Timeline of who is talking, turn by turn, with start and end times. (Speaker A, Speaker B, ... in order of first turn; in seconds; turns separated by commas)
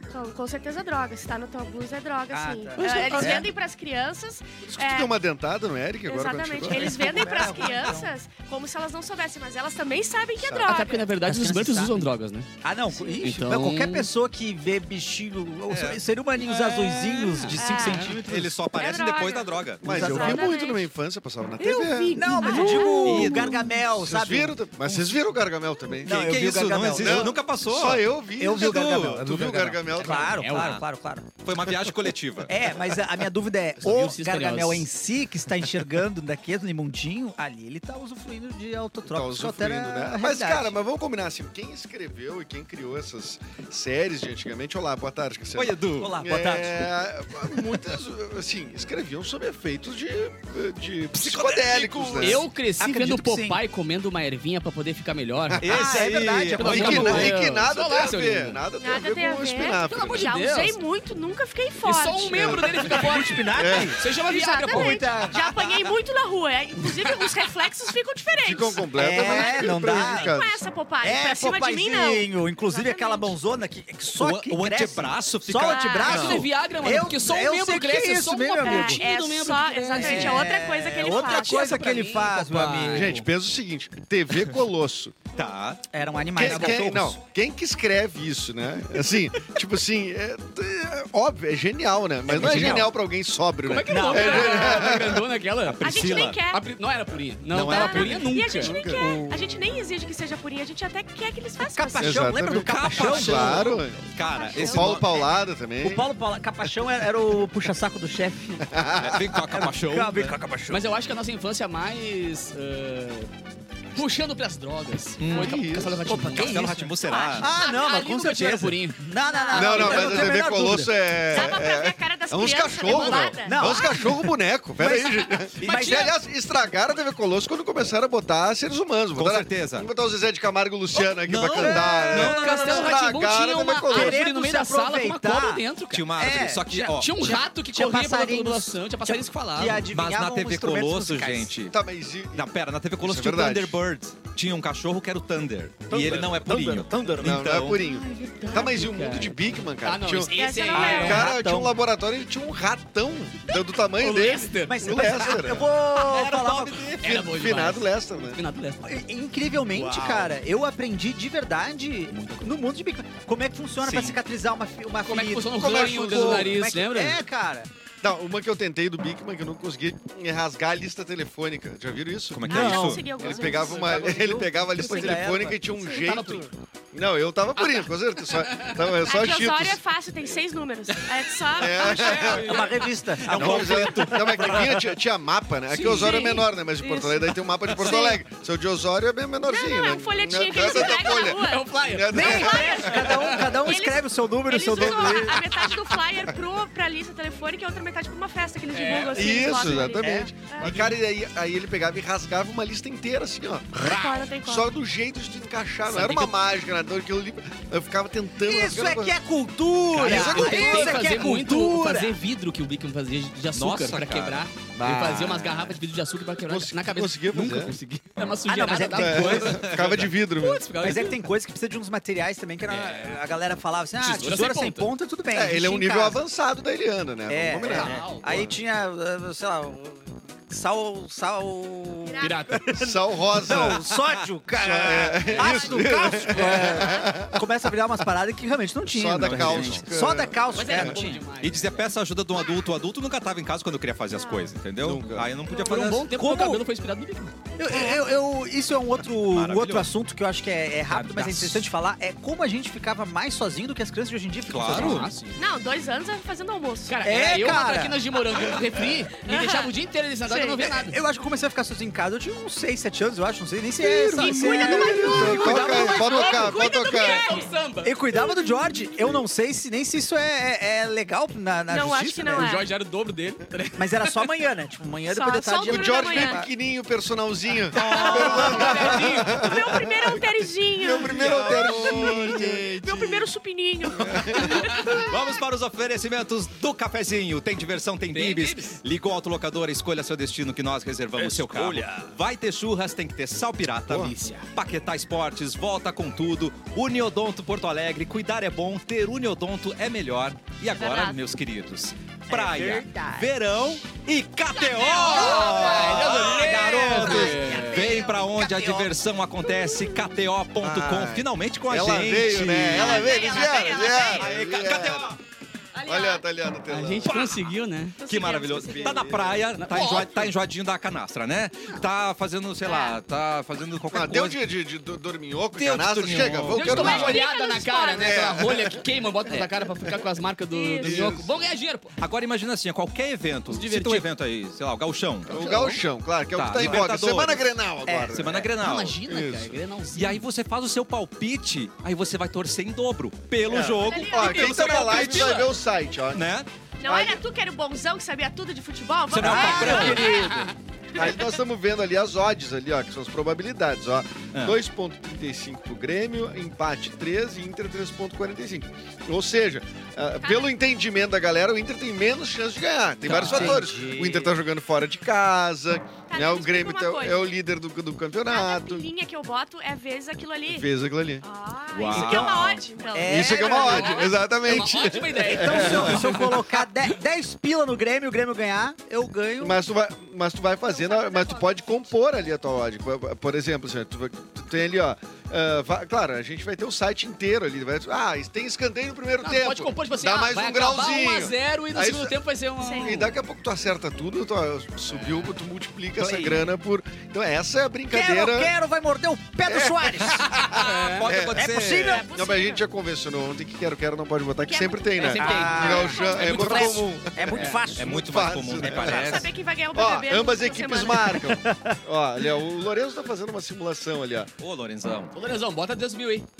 Speaker A: 0.1-5.1, Speaker B: 2.3-3.5, Speaker C: 2.8-3.5, Speaker D: 2.8-3.1, Speaker C: 4.7-7.5, Speaker A: 6.0-11.1, Speaker B: 6.7-8.1, Speaker C: 10.4-10.7, Speaker D: 10.6-12.5, Speaker B: 11.2-12.0, Speaker B: 12.6-18.6, Speaker D: 13.2-14.1, Speaker E: 15.7-16.0, Speaker D: 16.4-18.1, Speaker A: 17.5-18.1, Speaker E: 17.9-19.8, Speaker A: 18.7-20.9, Speaker C: 19.8-26.2, Speaker B: 19.8-20.5, Speaker D: 21.6-22.9, Speaker A: 21.6-23.6, Speaker B: 22.1-25.2, Speaker E: 23.0-23.7, Speaker B: 25.9-27.3, Speaker E: 26.1-29.2, Speaker C: 26.9-30.5, Speaker B: 28.4-31.3, Speaker D: 29.9-30.8, Speaker E: 30.5-30.8, Speaker E: 31.4-32.5, Speaker B: 32.5-40.8, Speaker D: 33.8-34.9, Speaker C: 39.1-52.4, Speaker E: 45.5-46.1, Speaker B: 46.0-46.9, Speaker E: 51.2-52.2, Speaker B: 51.3-53.6, Speaker D: 52.2-55.6, Speaker C: 55.5-56.0, Speaker E: 55.6-57.3, Speaker B: 55.7-57.3, Speaker D: 56.5-58.6, Speaker C: 56.6-60.3, Speaker A: 58.8-63.0, Speaker D: 59.9-60.8, Speaker D: 61.8-65.1, Speaker C: 62.3-62.9, Speaker B: 62.8-64.0, Speaker C: 63.5-64.0, Speaker A: 64.1-73.3, Speaker B: 64.7-65.4, Speaker D: 66.8-67.5, Speaker C: 68.4-70.6, Speaker B: 68.9-70.3, Speaker B: 71.0-79.0, Speaker E: 74.2-76.5, Speaker A: 75.6-76.2, Speaker D: 76.0-80.5, Speaker A: 78.6-82.0, Speaker B: 79.9-83.3, Speaker D: 81.1-83.1, Speaker C: 82.8-85.2, Speaker E: 85.3-85.8, Speaker B: 85.9-87.2, Speaker C: 86.3-95.3, Speaker E: 92.3-92.9, Speaker B: 92.3-92.8, Speaker D: 92.5-92.8, Speaker D: 93.6-98.8, Speaker B: 93.9-94.9, Speaker A: 94.1-94.8, Speaker E: 95.7-96.4, Speaker A: 95.8-96.6, Speaker E: 97.5-98.2, Speaker A: 97.7-102.4, Speaker C: 97.7-99.2, Speaker B: 98.9-99.5, Speaker B: 101.6-103.8, Speaker C: 102.0-104.1, Speaker E: 102.5-105.2, Speaker A: 104.2-104.9, Speaker C: 104.7-106.1, Speaker B: 105.8-108.7, Speaker C: 108.7-109.7, Speaker E: 109.0-110.4, Speaker B: 109.3-110.8, Speaker D: 110.7-113.3, Speaker D: 113.9-116.8, Speaker E: 115.2-115.6, Speaker C: 115.3-116.0, Speaker B: 116.0-121.5, Speaker E: 116.3-117.5, Speaker A: 117.0-118.0, Speaker D: 117.6-119.0, Speaker A: 119.2-120.2, Speaker C: 119.5-134.2, Speaker D: 119.6-120.4, Speaker A: 121.3-124.0, Speaker B: 122.9-126.1, Speaker D: 125.6-126.1, Speaker E: 129.1-129.9, Speaker E: 131.2-132.4, Speaker B: 131.6-132.9, Speaker D: 132.1-136.1, Speaker B: 133.9-135.6, Speaker E: 135.9-137.1, Speaker B: 136.2-141.5, Speaker D: 136.7-139.9, Speaker E: 139.9-141.7, Speaker C: 141.7-142.4, Speaker E: 142.3-147.8, Speaker C: 143.0-143.8, Speaker C: 145.9-155.7, Speaker D: 147.9-151.3, Speaker B: 148.2-149.0, Speaker A: 150.3-151.3, Speaker B: 150.7-151.8, Speaker D: 153.9-154.8, Speaker B: 154.6-156.9, Speaker E: 155.9-157.0, Speaker D: 157.0-159.0, Speaker C: 157.0-158.4, Speaker B: 158.8-167.7, Speaker E: 159.7-160.4, Speaker D: 162.1-162.5, Speaker E: 163.8-164.2, Speaker D: 165.0-167.2, Speaker C: 165.5-166.7, Speaker C: 168.0-179.8, Speaker E: 172.3-173.1, Speaker B: 172.5-175.6, Speaker A: 172.5-173.8, Speaker D: 174.8-176.5, Speaker D: 177.6-178.7, Speaker A: 179.0-182.4, Speaker C: 181.5-182.6, Speaker D: 181.8-182.8, Speaker B: 182.2-184.8, Speaker E: 183.2-184.8, Speaker C: 183.3-193.4, Speaker D: 185.7-186.3, Speaker A: 185.8-188.2, Speaker A: 189.5-193.1, Speaker D: 190.7-193.6, Speaker B: 192.1-195.4, Speaker A: 193.6-200.9, Speaker C: 194.7-195.4, Speaker D: 198.7-199.6, Speaker C: 199.1-203.9, Speaker B: 200.0-200.3, Speaker D: 200.6-200.9, Speaker D: 203.8-204.2, Speaker A: 203.8-204.7, Speaker C: 204.4-209.2, Speaker D: 205.8-206.3, Speaker B: 208.4-212.2, Speaker C: 209.9-211.2, Speaker D: 209.9-219.7, Speaker E: 213.5-214.5, Speaker C: 214.7-215.8, Speaker C: 216.4-217.7, Speaker B: 218.4-219.5, Speaker C: 218.6-220.7, Speaker E: 219.4-220.1, Speaker D: 220.3-221.2, Speaker B: 220.8-226.2, Speaker D: 222.7-223.2, Speaker D: 224.0-224.9, Speaker C: 225.3-228.6, Speaker B: 227.3-232.7, Speaker D: 227.7-228.4, Speaker A: 232.1-232.7, Speaker D: 232.2-232.7, Speaker C: 232.7-233.8, Speaker B: 233.4-241.2, Speaker C: 234.5-237.4, Speaker D: 235.2-236.8, Speaker A: 236.7-237.1, Speaker C: 238.9-241.0, Speaker E: 239.2-239.8, Speaker D: 240.5-241.9, Speaker E: 241.4-246.1, Speaker A: 244.1-244.5, Speaker C: 244.8-245.3, Speaker A: 245.5-245.9, Speaker D: 245.6-247.3, Speaker B: 246.1-246.6, Speaker B: 247.6-255.1, Speaker A: 247.7-248.1, Speaker E: 249.1-249.9, Speaker E: 250.9-251.7, Speaker E: 254.4-255.1, Speaker D: 254.6-255.4, Speaker A: 255.3-257.0, Speaker D: 256.9-261.0, Speaker B: 257.0-258.0, Speaker A: 259.2-259.7, Speaker A: 260.2-260.6, Speaker B: 260.6-266.4, Speaker C: 263.8-267.3, Speaker D: 264.2-267.9, Speaker A: 264.3-267.5, Speaker B: 267.8-272.5, Speaker A: 268.1-268.9, Speaker A: 271.7-272.6, Speaker D: 272.4-274.3, Speaker B: 273.8-276.5, Speaker A: 275.1-276.4, Speaker C: 275.6-283.3, Speaker E: 277.7-279.0, Speaker A: 277.9-285.1, Speaker D: 277.9-279.5, Speaker E: 281.0-282.1, Speaker C: 283.9-285.1, Speaker E: 285.0-313.3, Speaker D: 288.1-288.8, Speaker B: 291.2-292.1, Speaker D: 293.9-294.5, Speaker A: 300.7-301.2, Speaker B: 302.3-303.3, Speaker D: 304.5-307.8, Speaker A: 304.8-305.9, Speaker B: 305.3-308.9, Speaker A: 307.0-308.2, Speaker A: 309.4-310.0, Speaker C: 310.6-315.2, Speaker A: 312.6-314.3, Speaker E: 313.9-315.2, Speaker A: 315.7-316.2, Speaker C: 315.9-317.1, Speaker D: 316.7-318.0, Speaker E: 317.1-317.5, Speaker A: 318.0-319.0, Speaker E: 318.0-324.4, Speaker C: 318.5-319.4, Speaker D: 319.6-320.3, Speaker A: 322.6-323.0, Speaker C: 323.9-327.2, Speaker E: 325.6-327.2, Speaker D: 326.5-331.9, Speaker A: 326.5-328.2, Speaker C: 327.9-329.5, Speaker A: 330.5-331.0, Speaker C: 330.8-331.4, Speaker E: 332.0-335.8, Speaker D: 333.5-334.1, Speaker C: 335.3-338.5, Speaker E: 336.3-337.5, Speaker B: 337.8-338.4, Speaker E: 338.1-339.0, Speaker D: 338.6-340.2, Speaker C: 339.1-339.6, Speaker E: 339.9-345.3, Speaker C: 343.4-346.3, Speaker A: 343.8-345.3, Speaker D: 344.1-345.6, Speaker E: 346.1-346.5, Speaker A: 346.8-351.3, Speaker C: 346.9-347.2, Speaker E: 349.1-350.2, Speaker B: 349.2-350.2, Speaker D: 350.2-350.5, Speaker C: 350.9-368.9, Speaker A: 360.2-360.5, Speaker E: 363.0-363.6, Speaker B: 363.0-364.3, Speaker A: 366.1-367.3, Speaker A: 368.3-370.7, Speaker C: 370.4-371.2, Speaker A: 371.2-374.0, Speaker E: 371.7-372.6, Speaker C: 371.9-372.4, Speaker B: 372.9-374.0, Speaker C: 373.0-376.2, Speaker D: 373.3-376.4, Speaker B: 375.3-379.6, Speaker C: 379.4-392.2, Speaker A: 380.6-381.9, Speaker D: 389.2-393.1, Speaker A: 392.6-393.1, Speaker C: 392.8-398.5, Speaker B: 396.0-396.4, Speaker B: 397.9-400.3, Speaker C: 399.4-414.3, Speaker E: 400.3-402.0, Speaker D: 400.4-401.1, Speaker B: 401.3-402.1, Speaker A: 401.8-402.6, Speaker A: 404.4-406.7, Speaker D: 404.9-407.6, Speaker B: 405.2-409.3, Speaker E: 407.3-409.3, Speaker A: 408.9-411.2, Speaker B: 411.0-411.8, Speaker E: 414.4-415.1, Speaker D: 415.1-416.2